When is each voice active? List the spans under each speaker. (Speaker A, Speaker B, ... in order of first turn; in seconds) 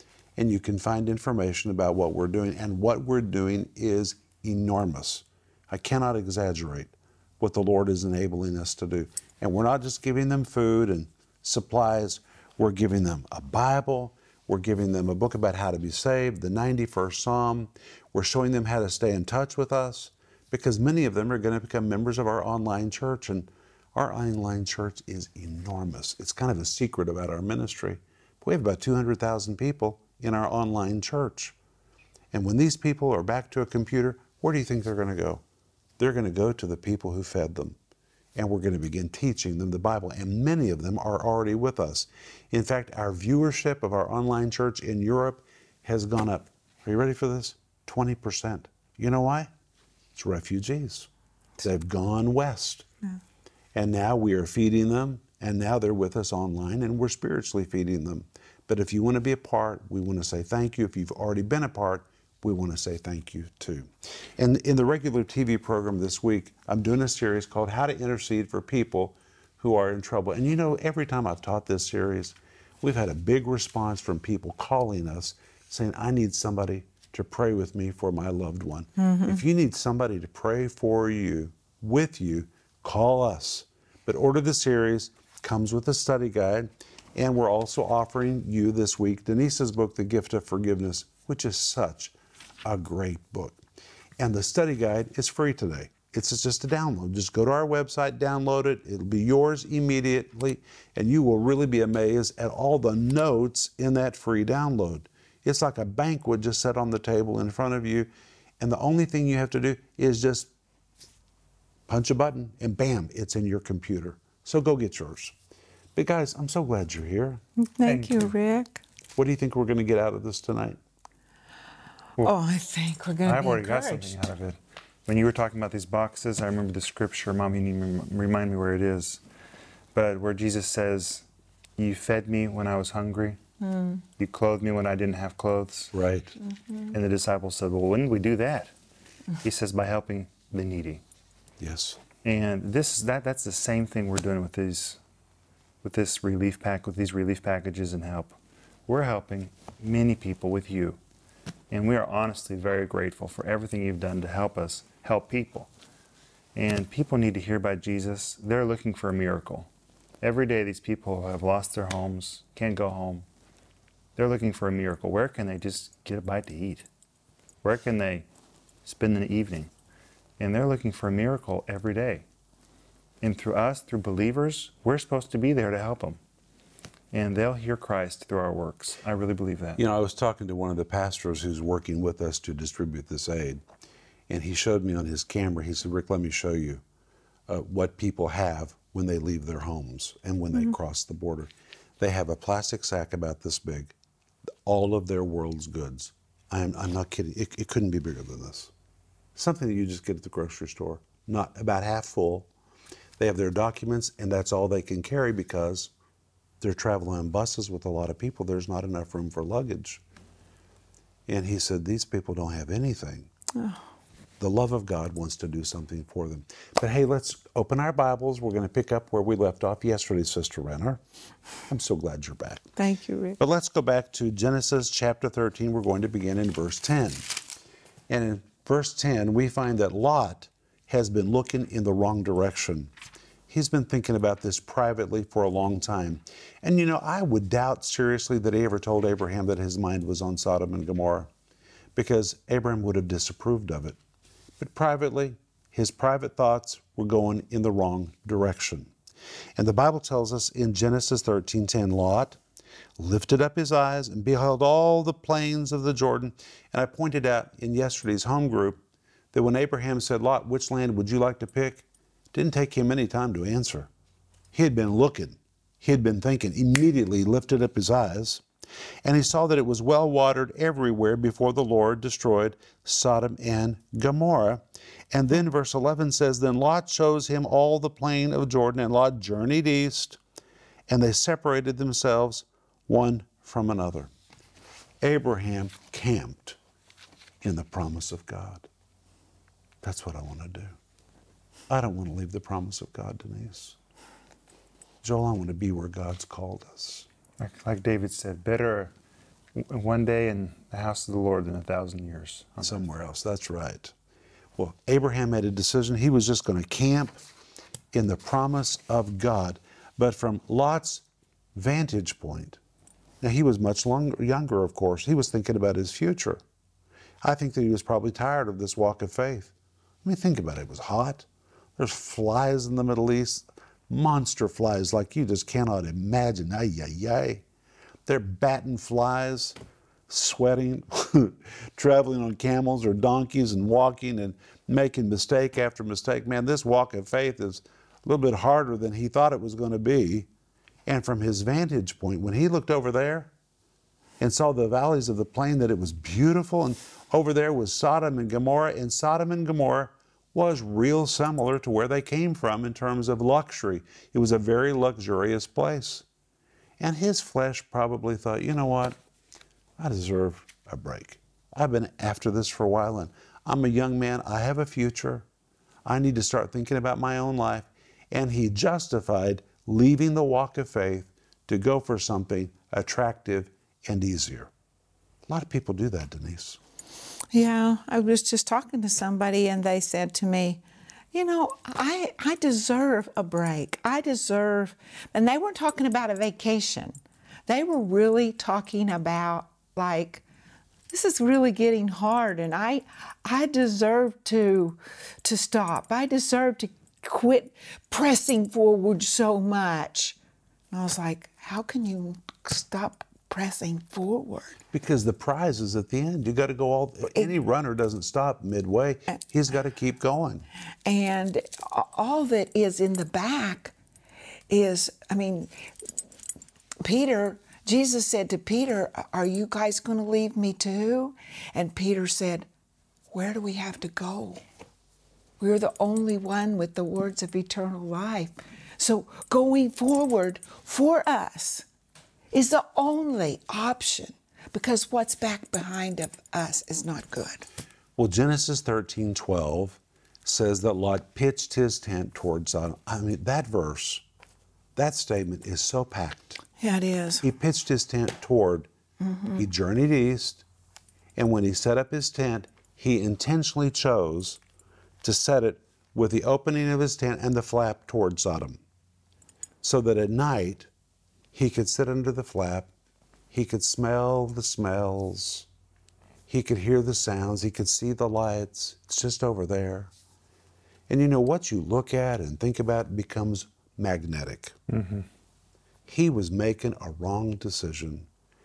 Speaker A: 0.4-31.6, 32.3-35.4, 36.0-37.8, 38.4-49.5, 50.2-51.1, 51.6-52.9, 53.8-92.1, 92.7-93.6, 94.2-110.5, 111.9-115.3, 116.0-117.4, 119.2-120.8, 135.9-136.3, 141.6-142.0, 179.8-183.6, 184.3-186.8, 187.5-193.9, 194.6-198.7, 199.4-202.5, 203.2-205.9, 206.6-210.0, 211.3-213.3, 214.4-221.0, 221.7-222.7, 223.4-227.3, 228.1-232.9, 233.5-241.3, 242.0-244.0, 244.6-248.9, 249.6-252.4, 253.0-258.8, 259.3-263.9, 264.5-268.4, 269.1-280.2, 280.9-284.1, 285.0-286.6, 287.4-288.7, 289.8-290.8, 291.7-293.8, 295.0-297.1, 302.6-303.9, 304.6-307.2, 307.9-312.6, 313.2-316.4, 317.2-319.5, 320.0-321.3, 321.8-327.4, 328.1-329.6, 330.1-340.3, 340.9-343.3, 344.2-356.1, 356.8-359.0, 359.8-365.3, 365.9-374.5, 375.3-376.6, 404.7-410.4, 438.0-444.0, 444.8-446.4, 447.2-448.7, 449.4-450.4, 451.2-454.4, 455.0-458.6, 459.6-460.7, 461.3-462.7, 463.3-465.5, 466.3-469.9, 470.9-474.6, 475.9-478.1
Speaker B: 79.0-79.4, 117.7-118.8, 122.2-124.2, 133.6-134.0, 213.6-213.8, 222.8-223.4, 377.3-380.6, 381.1-390.2, 390.9-400.2, 400.7-404.6, 410.9-413.7, 414.5-415.5, 416.8-422.5, 423.1-424.4, 425.4-431.6, 432.3-437.5, 446.6-447.2, 449.0-449.4
Speaker C: 117.9-118.3, 123.2-129.2, 129.9-131.2, 131.8-133.4, 134.2-135.9, 136.9-138.7, 139.4-141.0, 142.2-145.0, 145.8-148.4, 148.9-151.0, 151.7-155.7, 156.6-159.7, 160.2-163.2, 164.2-166.9, 167.6-168.3, 168.8-169.7, 170.4-172.2, 173.2-176.2, 177.1-179.8, 297.4-298.9, 299.6-302.8, 474.7-475.1